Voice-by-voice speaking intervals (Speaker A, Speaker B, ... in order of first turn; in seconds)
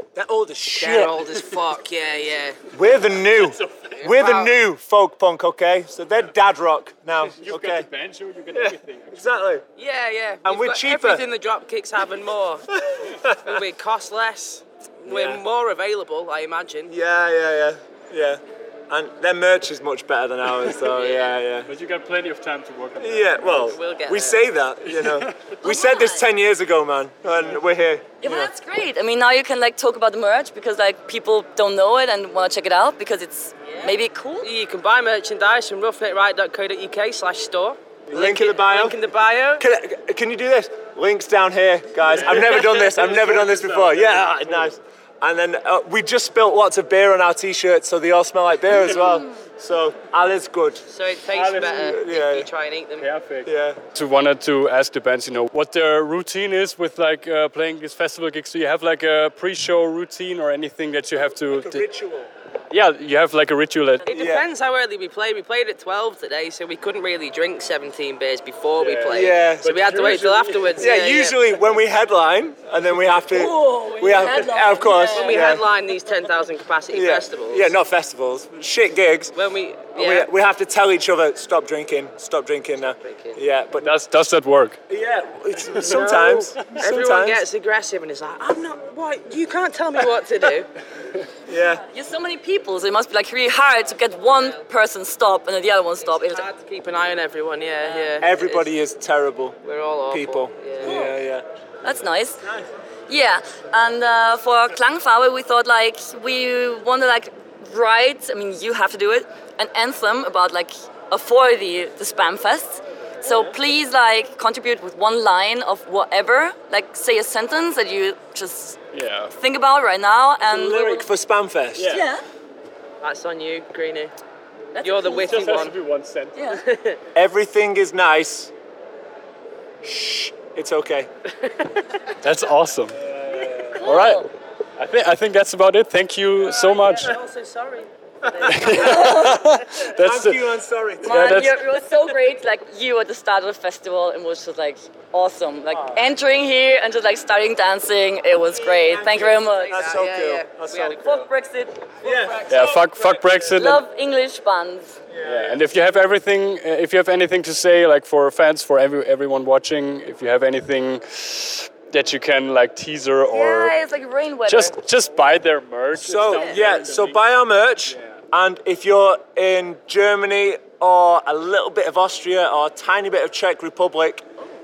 Speaker A: 0.1-1.2, 2.7-7.9, 8.5-9.6, 10.4-11.2, 12.8-13.4, 15.1-15.4, 16.9-21.7, 23.0-28.5, 38.1-39.0, 39.6-50.8, 51.5-52.5, 53.5-53.8, 61.5-62.3, 64.1-64.5, 69.0-70.0, 70.8-75.7, 76.9-79.3, 80.0-83.9, 84.9-87.4, 91.5-91.9, 98.2-99.6, 100.1-101.5, 102.4-102.7, 120.4-122.0, 127.2-128.5, 129.8-131.1, 133.2-133.8, 139.7-141.4, 145.7-146.1, 148.9-151.1, 152.0-152.5, 155.1-155.6, 165.9-174.2
Speaker B: 0.8-2.6, 4.0-4.6, 9.8-12.7, 13.4-16.9, 20.9-21.4, 23.6-24.4, 33.6-39.7, 50.9-53.1, 64.1-71.4, 74.8-77.7, 79.3-80.3, 82.8-83.4, 85.8-90.7, 94.2-94.6, 96.0-98.8, 99.6-101.0, 123.0-124.1, 124.8-125.8, 126.6-127.0, 131.4-132.0, 136.5-139.1, 149.0-151.3, 152.5-153.2, 166.3-166.6
Speaker C: 3.6-3.9, 7.2-9.2, 21.7-23.8, 24.9-25.3, 42.1-44.7, 51.3-51.8, 53.0-61.9, 62.7-64.2, 68.8-69.1, 69.7-70.5, 83.8-84.8, 118.9-119.3, 121.8-122.0, 125.1-126.4, 132.2-133.2, 133.7-137.2, 138.5-141.6, 152.5-153.8, 155.3-163.8, 164.5-167.2, 167.9-168.2
Speaker D: 25.6-26.3, 28.2-34.5, 73.3-75.6, 91.9-96.5, 97.8-98.2, 100.8-101.2, 101.8-102.4, 103.1-118.8, 119.3-121.1, 121.8-122.2, 124.8-125.6, 126.3-126.6, 133.7-134.3, 138.7-139.6, 141.0-150.0, 151.0-151.9, 152.4-152.8, 153.5-155.0, 163.3-164.8